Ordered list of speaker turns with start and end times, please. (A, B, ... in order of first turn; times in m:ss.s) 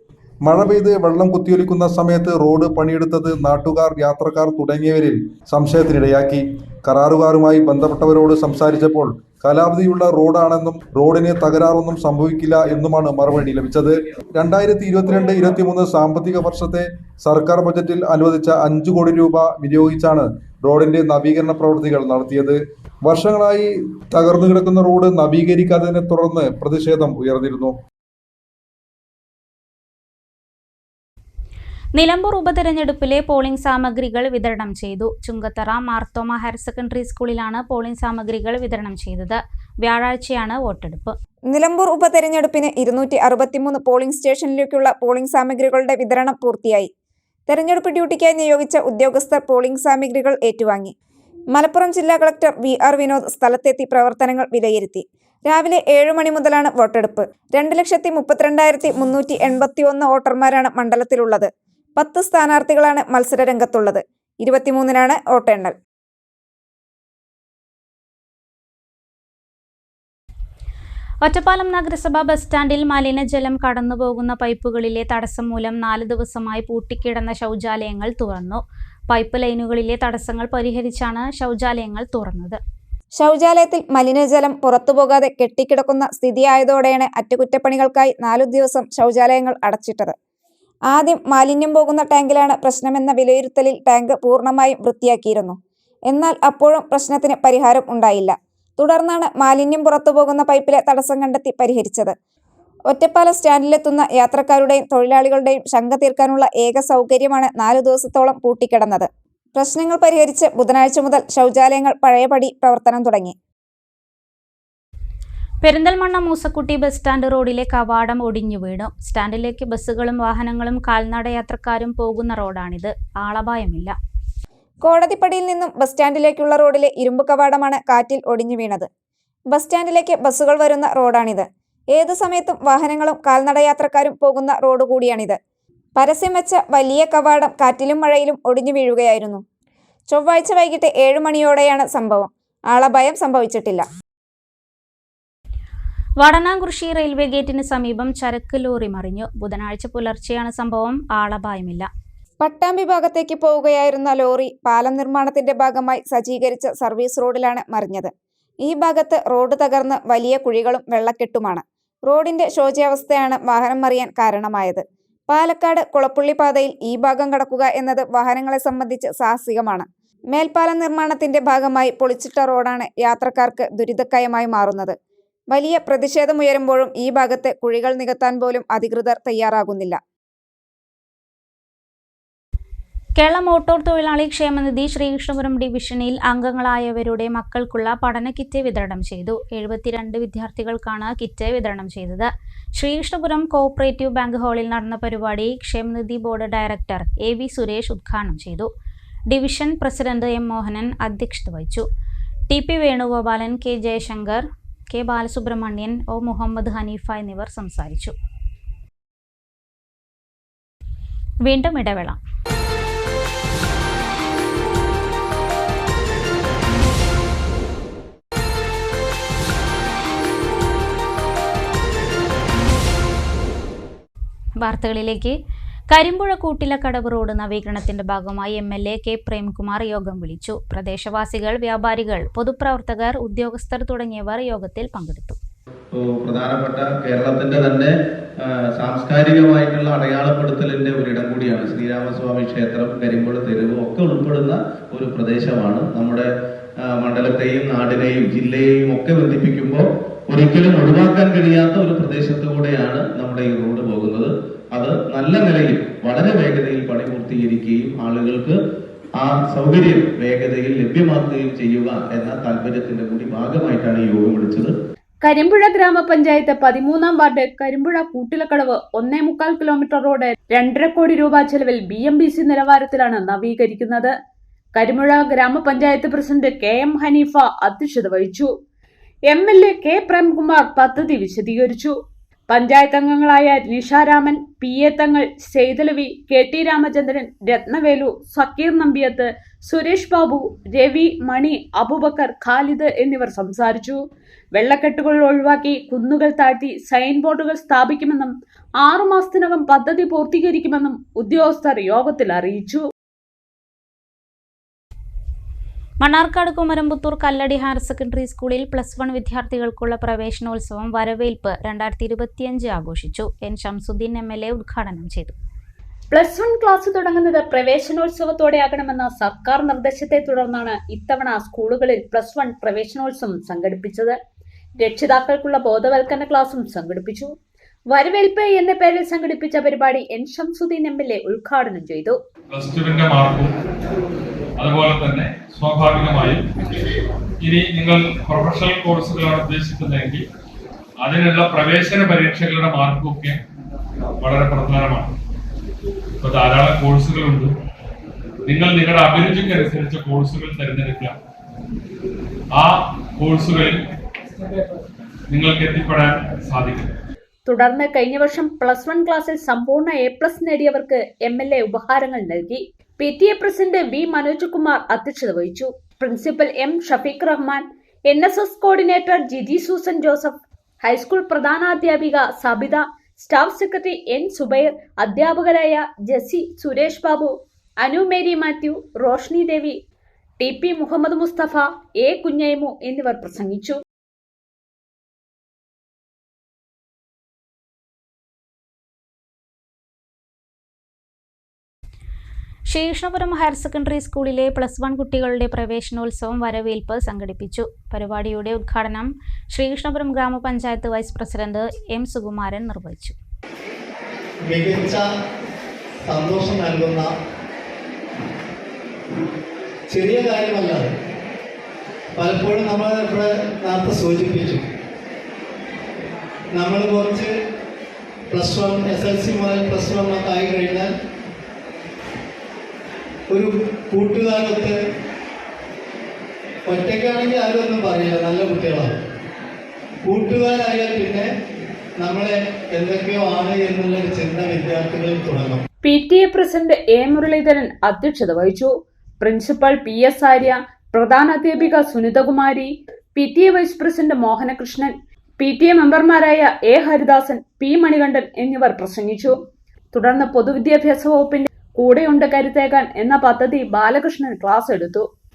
0:00.4-0:27.7 A
0:32.0-0:41.1 B
0:41.5-0:46.9 C
0:47.5-0:50.9 C
0:51.5-1:05.7 C
1:11.2-1:22.6 B
1:23.2-1:30.1 C
1:30.9-1:35.6 C
1:36.1-1:42.1 C
1:42.9-1:53.4 C
1:55.6-2:03.9 B
2:04.8-2:08.9 C
2:09.5-2:15.4 C
2:16.0-2:19.4 C
2:20.1-2:23.8 C
2:26.2-2:31.9 B
2:32.4-2:38.1 C
2:38.6-2:54.9 C
2:55.5-3:00.0 C
3:03.2-3:18.7 B
3:19.3-3:21.8 B
3:22.5-3:28.1 B
3:31.4-3:32.2 B
3:44.6-3:45.3 B
3:45.9-3:55.4 B
3:55.9-3:57.9 D
3:58.4-4:06.3 D
4:06.8-4:18.6 D
4:19.2-4:24.7 D
4:25.2-4:34.1 E
4:34.7-4:38.5 E
4:39.3-4:42.0 E
4:42.5-4:54.0 E
4:54.5-5:02.8 E
5:06.0-5:15.3 B
5:16.1-5:24.2 E
5:24.8-5:27.3 E
5:27.9-5:32.2 E
5:32.5-5:33.5 F
5:34.6-5:36.5 F
5:37.4-5:40.2 F
5:41.0-5:43.4 F
5:44.2-5:45.1 F
5:46.2-5:47.5 F
5:48.4-5:51.1 F
5:52.5-5:53.8 F
5:55.3-5:56.9 F
5:57.5-6:19.8 E
6:20.4-6:23.8 E
6:32.7-6:43.1 B
6:44.5-6:45.0 G
6:46.1-6:47.1 G
6:49.9-6:50.9 G
6:52.2-6:54.6 G
6:56.5-6:57.3 G
6:58.3-7:00.9 G
7:03.3-7:04.8 G
7:06.7-7:08.9 G
7:10.0-7:11.3 G
7:12.0-7:15.6 G
7:15.8-7:29.4 E
7:29.9-7:35.1 E